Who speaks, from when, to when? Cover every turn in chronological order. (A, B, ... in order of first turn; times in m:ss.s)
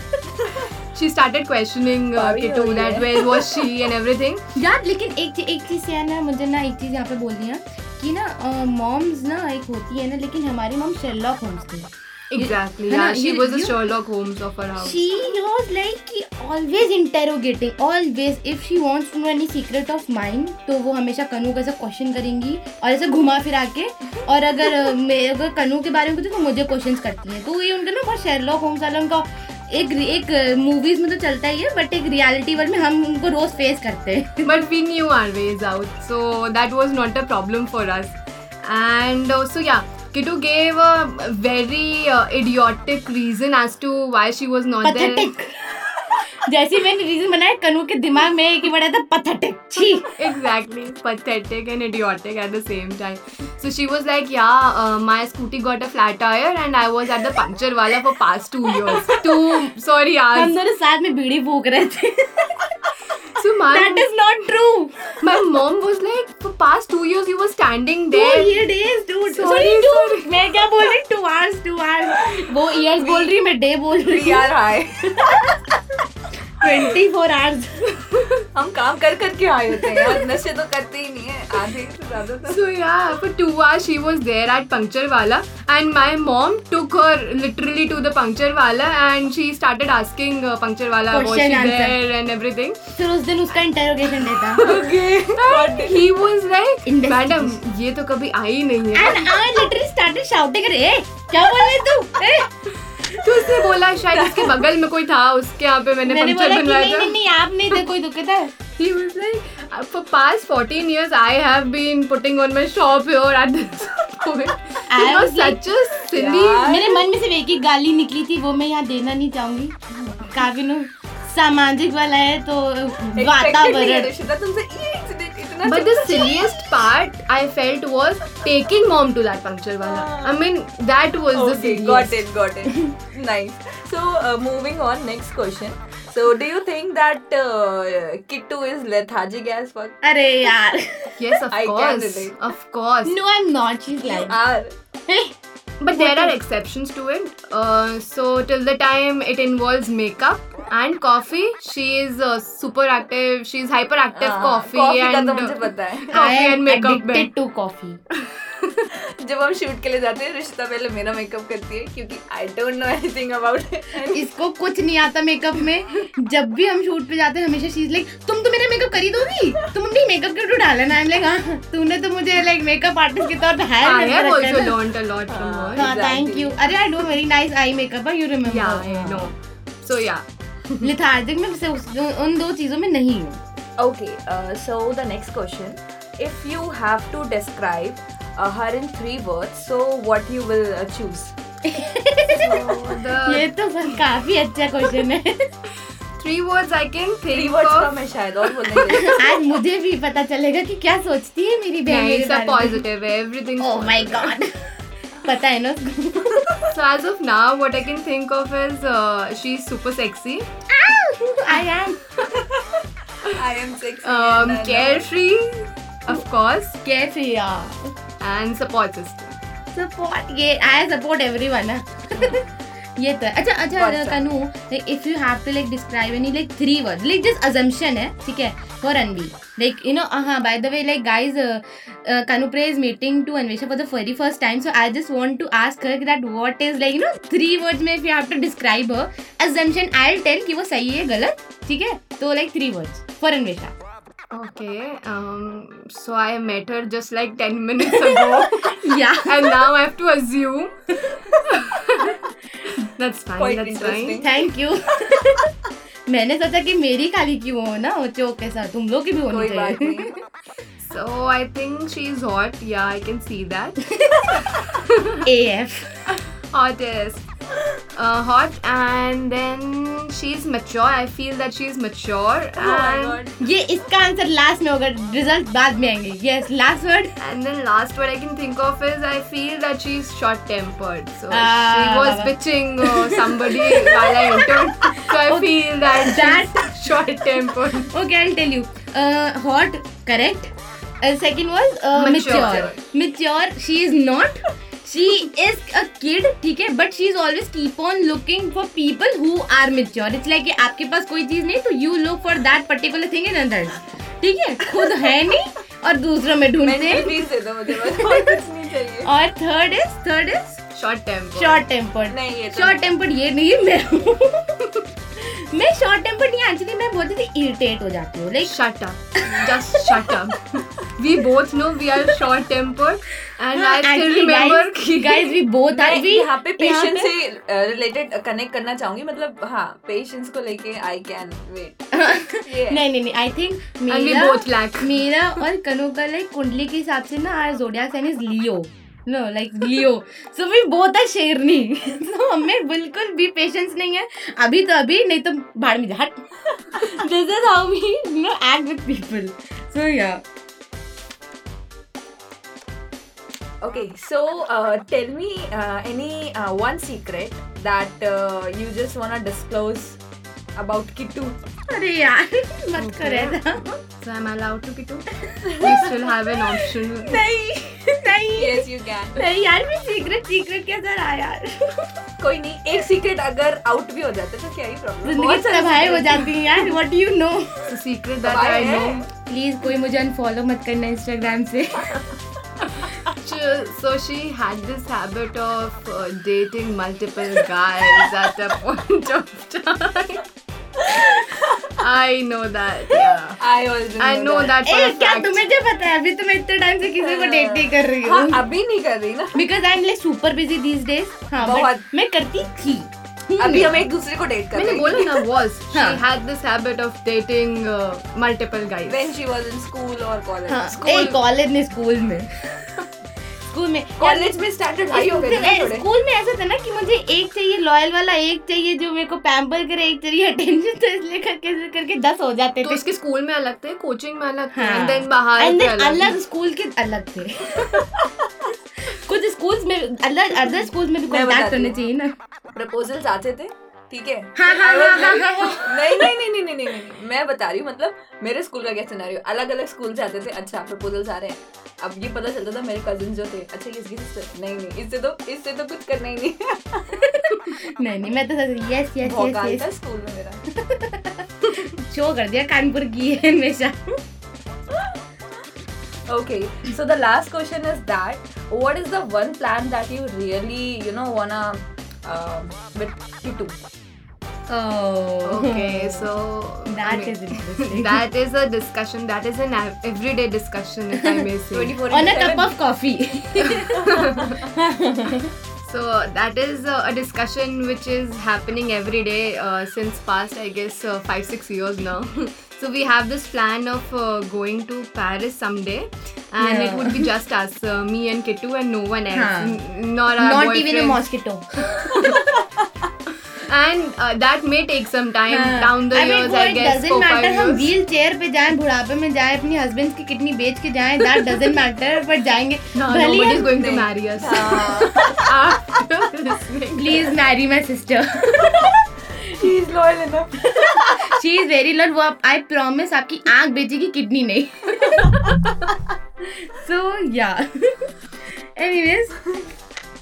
0:00.9-0:04.4 A
0:02.2-0:03.6 B
0:04.6-0:13.8 C
0:12.3-0:15.1 A
0:14.8-0:34.6 C
0:34.4-0:45.3 A
0:44.8-0:50.1 C
0:50.2-1:00.6 A
0:58.8-0:59.7 C
1:00.3-1:02.7 C
1:03.4-1:04.1 A
1:03.7-1:05.1 C
1:05.2-1:08.5 A
1:08.1-1:14.5 C
1:09.3-1:10.4 A
1:12.1-1:13.3 B
1:14.0-1:15.5 B
1:15.2-1:15.4 C
1:16.6-1:17.9 C
1:18.5-1:22.6 B
1:22.4-1:32.8 A
1:31.1-1:32.0 C
1:33.0-1:34.7 C
1:34.6-1:36.1 B
1:34.6-1:39.4 A
1:36.8-1:37.6 C
1:38.9-1:42.5 C
1:43.0-1:43.8 C
1:43.2-1:47.2 A
1:44.1-1:44.6 B
1:46.0-1:48.5 C
1:48.8-1:56.7 A
1:54.9-1:55.6 C
1:56.1-1:57.1 B
1:56.6-2:04.2 C
1:59.9-2:00.4 B
2:03.1-2:06.9 B
2:05.6-2:12.2 A
2:09.8-2:10.5 B
2:11.3-2:20.6 B
2:20.0-2:21.3 C
2:21.2-2:23.2 A
2:21.5-2:22.4 B
2:23.0-2:24.4 C
2:24.0-2:24.7 B
2:25.8-2:37.3 A
2:25.9-2:26.4 C
2:34.1-2:36.2 B
2:36.1-2:38.0 C
2:38.2-2:38.8 A
2:38.9-2:44.3 B
2:44.1-2:54.8 C
2:53.8-2:55.9 A
2:55.3-2:56.6 B
2:55.8-2:59.3 C
2:58.4-3:00.9 A
3:00.8-3:03.4 C
3:03.8-3:11.3 B
3:11.7-3:15.3 C
3:12.3-3:13.5 A
3:16.2-3:17.9 A
3:17.3-3:19.4 B
3:18.9-3:22.8 C
3:21.8-3:24.4 A
3:23.6-3:24.5 C
3:25.2-3:26.5 C
3:26.7-3:30.4 A
3:30.7-3:32.1 C
3:32.2-3:35.1 B
3:34.0-3:36.8 A
3:36.8-3:37.8 C
3:38.2-3:39.3 A
3:39.7-4:03.7 C
3:43.7-3:44.2 B
4:04.3-4:14.2 A
4:07.8-4:09.7 C
4:13.4-4:14.5 B
4:14.2-4:15.5 C
4:16.1-4:20.1 C
4:19.3-4:20.1 B
4:20.8-4:23.8 A
4:24.4-4:25.2 A
4:25.2-4:26.0 C
4:26.1-4:27.2 A
4:27.9-4:33.2 A
4:32.6-4:33.4 B
4:33.4-4:37.1 C
4:37.2-4:47.9 A
4:41.3-5:07.3 C
4:51.9-4:52.8 A
5:06.6-5:09.1 B
5:07.8-5:08.4 C
5:09.0-5:10.6 C
5:10.7-5:11.6 A
5:11.3-5:18.6 C
5:12.1-5:12.9 B
5:18.4-5:25.4 A
5:23.6-5:27.1 C
5:25.6-5:32.8 B
5:31.9-5:50.2 C
5:33.9-5:35.4 A
5:53.6-6:00.0 B
6:00.6-6:01.4 B
6:01.7-6:03.7 C
6:02.8-6:05.0 A
6:05.2-6:06.2 C
6:05.4-6:05.9 B
6:05.6-6:07.2 A
6:06.9-6:11.9 C
6:08.2-6:09.3 B
6:12.2-6:16.6 B
6:15.0-6:17.8 C
6:17.7-6:19.0 A
6:18.2-6:19.1 B
6:19.2-6:22.1 C
6:22.6-6:30.2 A
6:30.8-6:31.8 B
6:31.8-6:33.4 A
6:33.4-6:34.6 B
6:34.0-6:35.4 A
6:34.6-6:38.5 C
6:37.0-6:39.4 B
6:39.3-6:43.9 C
6:41.4-6:41.9 B
6:43.4-6:45.1 B
6:44.5-6:49.1 A
6:45.7-6:46.0 C
6:48.8-6:51.2 B
6:50.5-6:52.7 C
6:53.5-6:54.4 C
6:54.0-6:55.9 B
6:54.9-7:02.9 C
7:02.6-7:06.2 A
7:04.5-7:07.8 C
7:07.9-7:08.3 B
7:08.8-7:12.1 C
7:11.0-7:11.8 B
7:12.5-7:27.0 B
7:14.4-7:16.1 C
7:27.0-7:29.7 C
7:29.0-7:30.4 B
7:30.6-7:33.9 C
7:36.1-7:43.6 B
7:44.5-7:46.1 C
7:45.2-7:51.8 A
7:46.7-7:48.0 C
7:51.0-7:51.2 C
7:51.5-7:52.5 B
7:51.9-7:55.3 C
7:53.4-7:54.4 A
7:53.7-7:54.4 B
7:55.6-8:11.0 A
8:06.4-8:07.1 C
8:09.1-8:09.6 C
8:10.2-8:12.4 C
8:11.9-8:12.7 B
8:13.3-8:17.8 A
8:15.3-8:23.5 C
8:22.7-8:27.1 A
8:23.5-8:25.8 B
8:26.7-8:29.1 C
8:28.6-8:31.1 B
8:30.4-8:35.4 C
8:35.0-8:35.9 B
8:36.4-8:39.2 C